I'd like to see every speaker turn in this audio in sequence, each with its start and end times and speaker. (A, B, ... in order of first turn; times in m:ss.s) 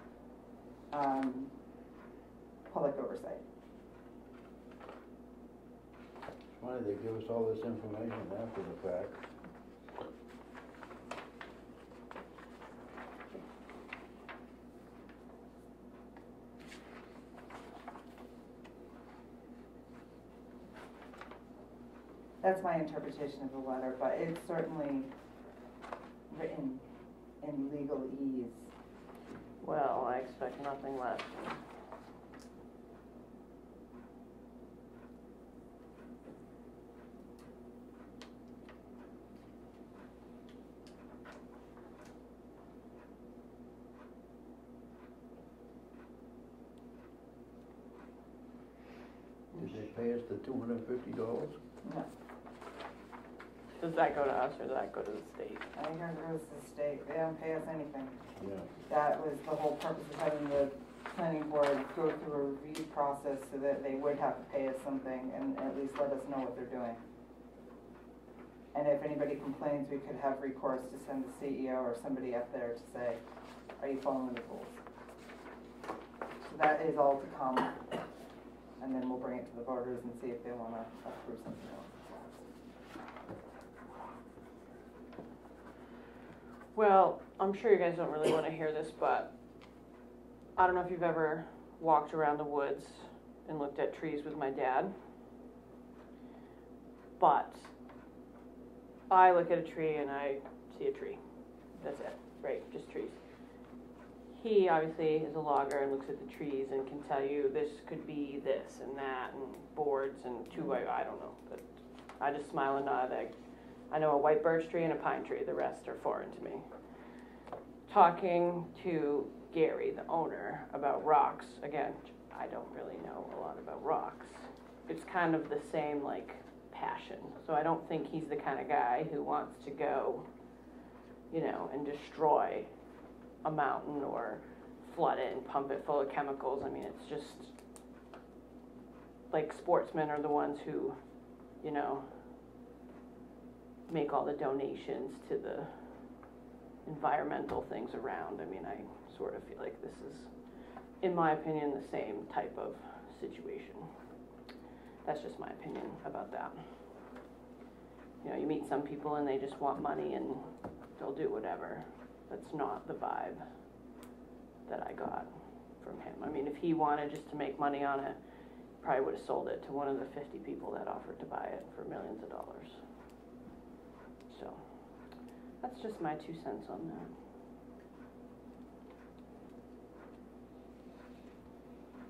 0:00.9-0:01.5 A
0:02.7-0:03.4 A
0:06.5-0:09.2 B
0:22.4-0:25.1 A
0:26.3-0:26.8 A
0:27.4-0:28.7 A
0:29.6-0:31.6 C
0:49.6-0:51.6 B
0:53.8-0:55.7 C
0:55.8-0:58.2 A
0:58.4-0:58.7 B
0:58.9-1:07.0 A
1:08.7-1:13.2 A
1:13.8-1:14.7 A
1:16.4-1:17.8 A
1:18.8-1:22.4 A
1:26.7-1:29.3 C
1:30.6-1:34.9 C
1:37.2-1:37.7 C
1:39.1-1:41.2 C
1:41.8-1:43.2 C
1:44.3-1:51.7 C
1:52.2-1:53.3 C
1:53.9-1:56.6 C
1:57.9-2:10.3 C
2:11.3-2:12.7 C
2:13.4-2:17.5 C
2:19.3-2:21.0 C
2:21.6-2:22.1 C
2:23.9-2:25.7 C
2:26.8-2:30.3 C
2:31.0-2:33.9 C
2:35.0-2:36.6 C
2:38.2-2:40.4 C
2:41.0-2:43.4 C
2:44.7-2:48.2 C
2:48.8-2:52.8 C
2:54.3-2:54.6 C
2:55.6-2:57.1 C